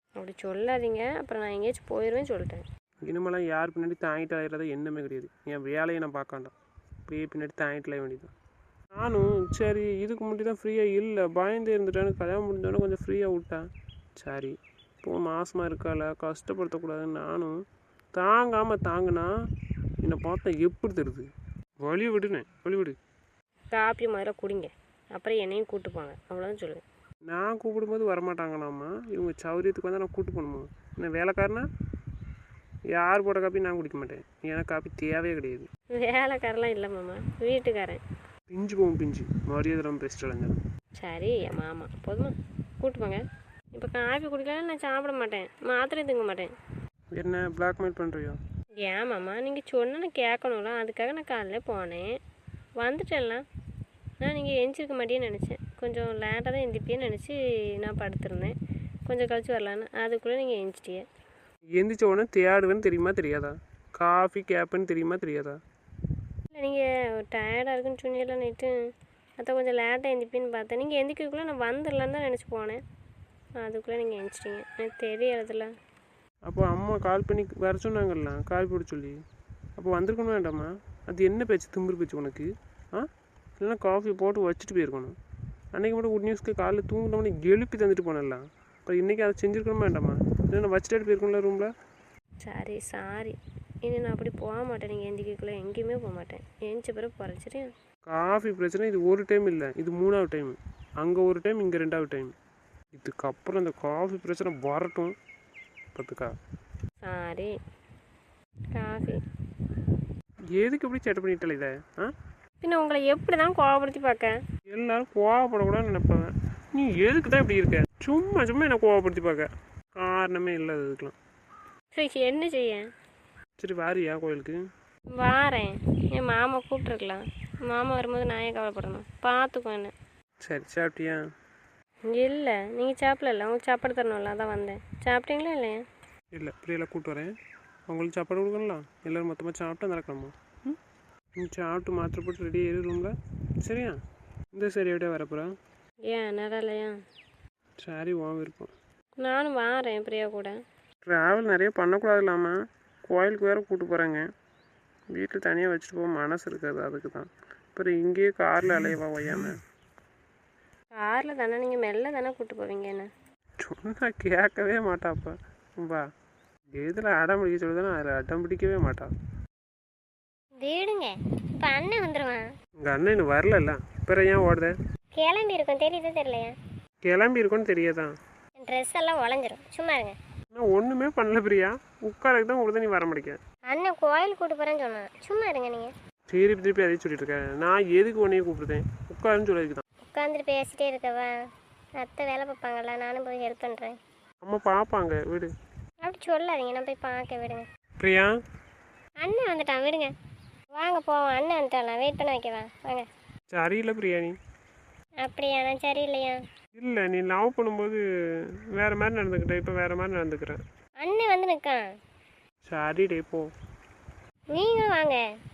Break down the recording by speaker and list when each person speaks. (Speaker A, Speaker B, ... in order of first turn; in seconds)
Speaker A: 0.2-2.6, 23.7-26.8, 35.9-38.0, 41.0-43.2, 43.7-46.5, 48.8-52.1, 52.8-53.4, 54.2-58.5, 59.1-61.0, 66.5-68.7, 69.4-72.8, 73.6-75.7, 92.4-97.7, 107.0-107.5, 108.7-109.2, 112.6-114.4, 121.9-122.9, 125.1-129.9, 132.1-135.8, 146.0-147.0, 149.2-150.6, 160.9-163.1
Speaker B: 3.0-6.5, 7.1-8.3, 8.9-13.7, 14.2-17.6, 18.1-19.3, 20.0-21.3, 21.8-23.0, 27.2-31.7, 32.9-35.7, 38.5-40.6, 47.1-48.4, 61.8-65.6, 76.4-79.2, 79.8-83.1, 83.6-85.2, 85.7-91.7, 98.1-102.3, 102.9-105.2, 105.9-106.4, 110.5-112.1, 114.7-121.1, 123.6-124.6, 130.4-131.2, 136.3-137.3, 137.9-140.8, 141.4-144.0, 144.5-145.5, 147.8-148.7, 151.0-154.2, 155.1-159.6, 163.6-166.1, 166.7-169.1, 172.8-174.8, 177.0-178.1, 180.5-183.4, 186.3-189.8, 194.4-195.5, 198.0-198.3, 203.5-204.4, 206.8-208.0, 208.7-210.6, 212.6-213.5
Speaker C: 170.6-172.5, 175.1-176.5, 178.6-180.2, 183.7-185.9, 190.1-191.3, 192.0-193.9, 196.0-197.7, 199.2-200.1, 200.8-203.0, 205.2-206.4, 211.0-211.8, 214.5-215.2